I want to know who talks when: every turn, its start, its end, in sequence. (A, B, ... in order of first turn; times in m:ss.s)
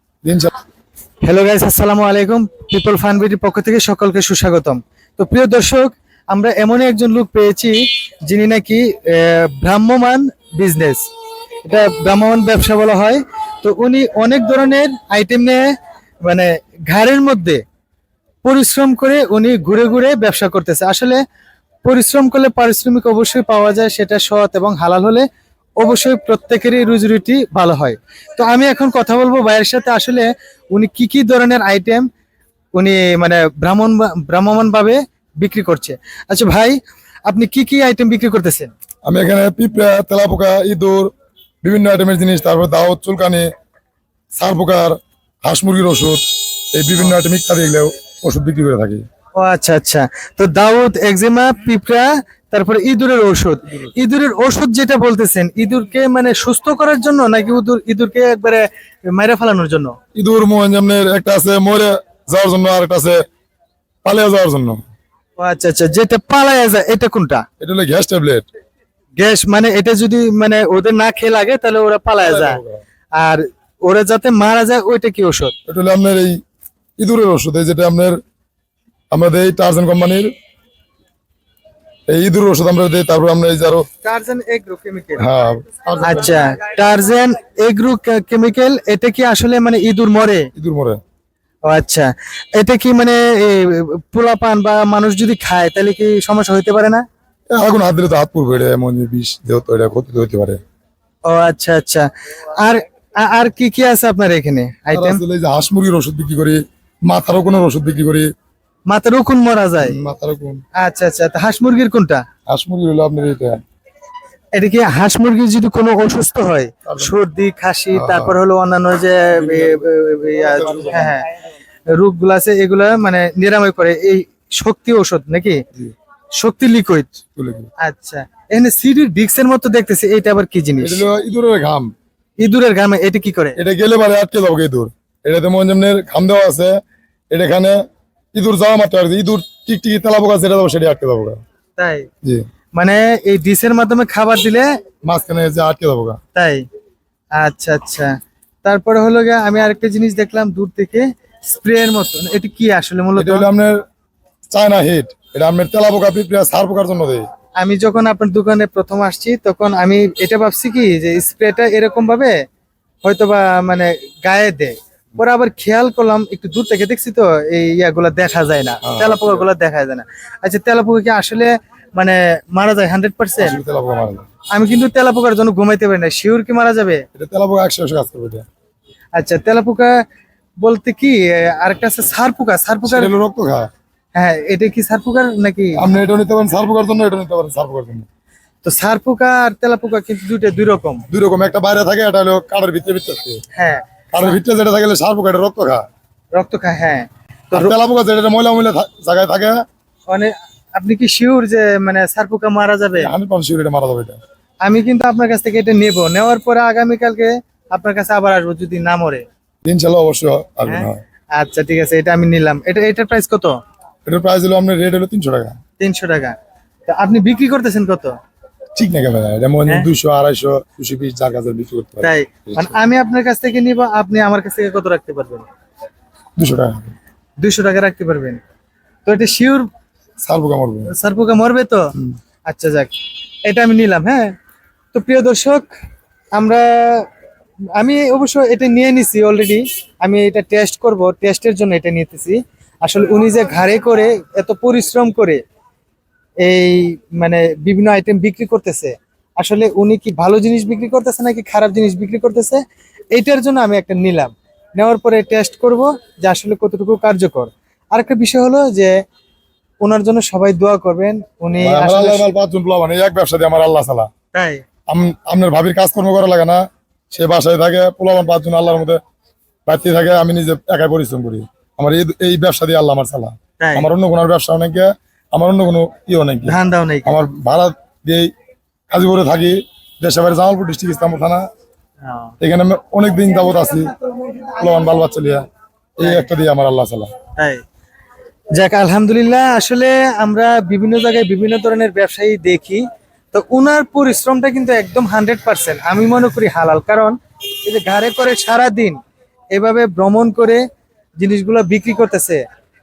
0:00.2-0:00.5 A
0:01.2-0:11.0 B
0:11.7-0:15.7 B
0:16.3-0:17.6 B
0:18.4-0:21.2 B
0:21.8-0:25.2 B
0:25.8-0:32.1 B
0:32.8-0:36.8 B
0:37.3-0:38.7 B
0:39.1-0:41.1 A
0:41.6-0:43.5 A
0:44.4-0:49.0 A
0:49.4-1:00.0 B
1:00.2-1:03.2 A
1:04.0-1:04.8 A
1:05.4-1:07.4 B
1:07.6-1:08.5 A
1:09.2-1:12.6 B
1:12.2-1:12.8 A
1:13.2-1:15.5 B
1:15.7-1:16.4 A
1:17.0-1:18.2 A
1:19.1-1:20.3 A
1:22.1-1:23.9 A
1:24.0-1:25.2 B
1:25.2-1:26.5 A
1:26.0-1:30.5 B
1:30.6-1:31.0 A
1:31.7-1:37.0 B
1:37.5-1:40.6 A
1:41.3-1:45.2 B
1:44.9-1:48.3 A
1:48.9-1:50.0 B
1:49.8-1:50.6 A
1:50.8-1:52.2 B
1:52.5-1:53.6 A
1:54.6-2:01.3 B
1:56.9-1:57.1 A
1:57.9-1:58.4 A
1:59.3-2:01.2 A
2:01.9-2:05.6 B
2:06.4-2:07.2 B
2:07.4-2:07.7 A
2:07.8-2:11.0 B
2:10.8-2:11.9 A
2:12.4-2:13.6 B
2:13.6-2:16.7 A
2:17.3-2:17.8 A
2:18.4-2:21.4 A
2:21.8-2:22.1 B
2:22.8-2:24.7 B
2:25.0-2:26.2 A
2:26.4-2:26.6 B
2:27.4-2:28.1 B
2:28.6-2:33.5 B
2:33.2-2:33.8 A
2:34.5-2:37.3 A
2:37.6-2:42.4 B
2:43.0-2:53.6 B
2:48.8-2:49.4 A
2:53.4-2:54.3 A
2:54.5-2:57.0 B
2:57.2-2:58.4 A
2:59.2-3:00.0 B
3:00.6-3:03.1 B
3:02.9-3:03.7 A
3:04.2-3:05.9 B
3:05.8-3:08.1 A
3:08.6-3:11.0 B
3:11.1-3:13.4 A
3:13.5-3:14.4 B
3:14.1-3:15.8 A
3:16.4-3:17.7 B
3:17.5-3:19.6 A
3:20.1-3:23.1 B
3:23.0-3:24.2 A
3:24.6-3:29.2 B
3:29.7-3:31.0 A
3:30.7-3:33.6 B
3:34.1-3:35.6 A
3:35.8-3:36.3 B
3:36.9-3:38.1 B
3:38.8-3:42.8 A
3:42.0-3:45.5 B
3:46.4-3:46.9 A
3:47.4-3:48.4 B
3:49.0-3:49.7 B
3:50.2-3:50.9 A
3:50.9-3:51.9 B
3:52.5-3:52.9 B
3:53.4-3:54.3 B
3:54.9-3:55.7 B
3:56.4-3:57.1 B
3:57.8-4:05.4 B
4:06.4-4:12.6 B
4:13.1-4:18.9 B
4:19.8-4:22.3 B
4:21.6-4:24.1 A
4:24.3-4:24.6 B
4:24.9-4:29.0 A
4:29.7-4:38.3 A
4:33.6-4:33.9 B
4:36.5-4:37.1 B
4:38.9-4:41.4 A
4:42.0-4:42.3 B
4:42.4-4:45.4 A
4:46.0-4:47.1 A
4:46.0-4:46.3 B
4:48.6-4:59.0 B
4:59.5-5:00.6 B
5:01.2-5:02.4 B